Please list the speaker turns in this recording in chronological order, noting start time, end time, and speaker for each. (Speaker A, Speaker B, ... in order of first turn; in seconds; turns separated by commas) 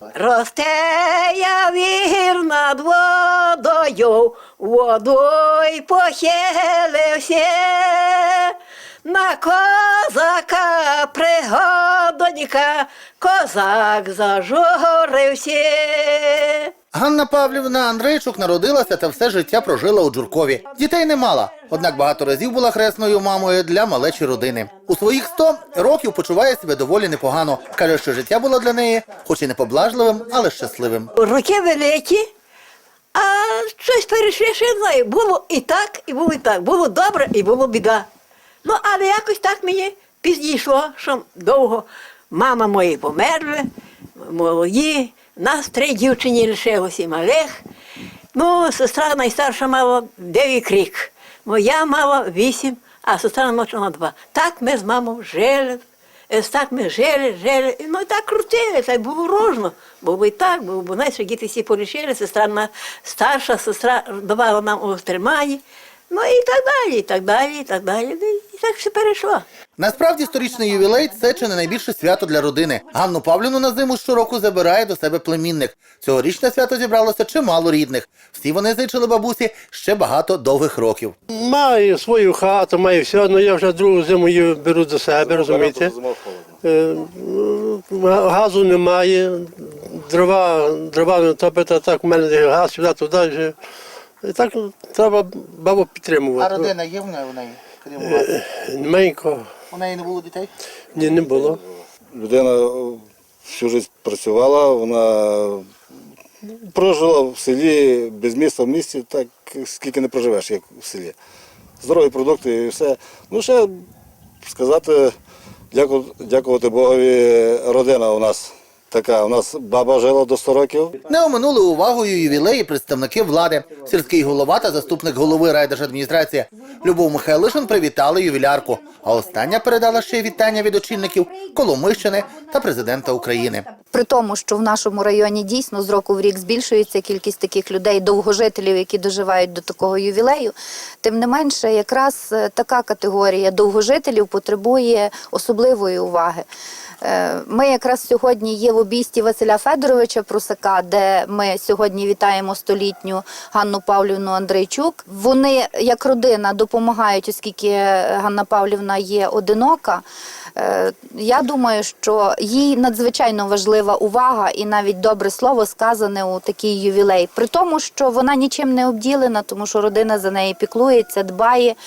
Speaker A: 0.1-8.5, Speaker A: 9.1-16.7, Speaker B: 16.9-31.1, Speaker A: 21.5-21.8, Speaker A: 31.2-32.3, Speaker A: 33.1-38.1, Speaker A: 38.6-43.7, Speaker A: 44.2-47.6, Speaker A: 48.3-69.4, Speaker B: 69.8-81.1, Speaker C: 81.3-86.0, Speaker D: 85.2-86.6, Speaker C: 86.6-93.5, Speaker C: 94.2-96.7, Speaker B: 96.4-98.3, Speaker C: 98.0-99.5, Speaker B: 99.7-100.5, Speaker C: 101.0-101.6, Speaker D: 101.3-101.6, Speaker D: 102.2-105.7, Speaker D: 106.7-111.2, Speaker D: 111.8-113.8, Speaker D: 114.4-115.1, Speaker D: 115.7-121.0, Speaker B: 121.1-133.7, Speaker E: 133.9-146.5, Speaker E: 147.0-160.0, Speaker E: 160.6-171.8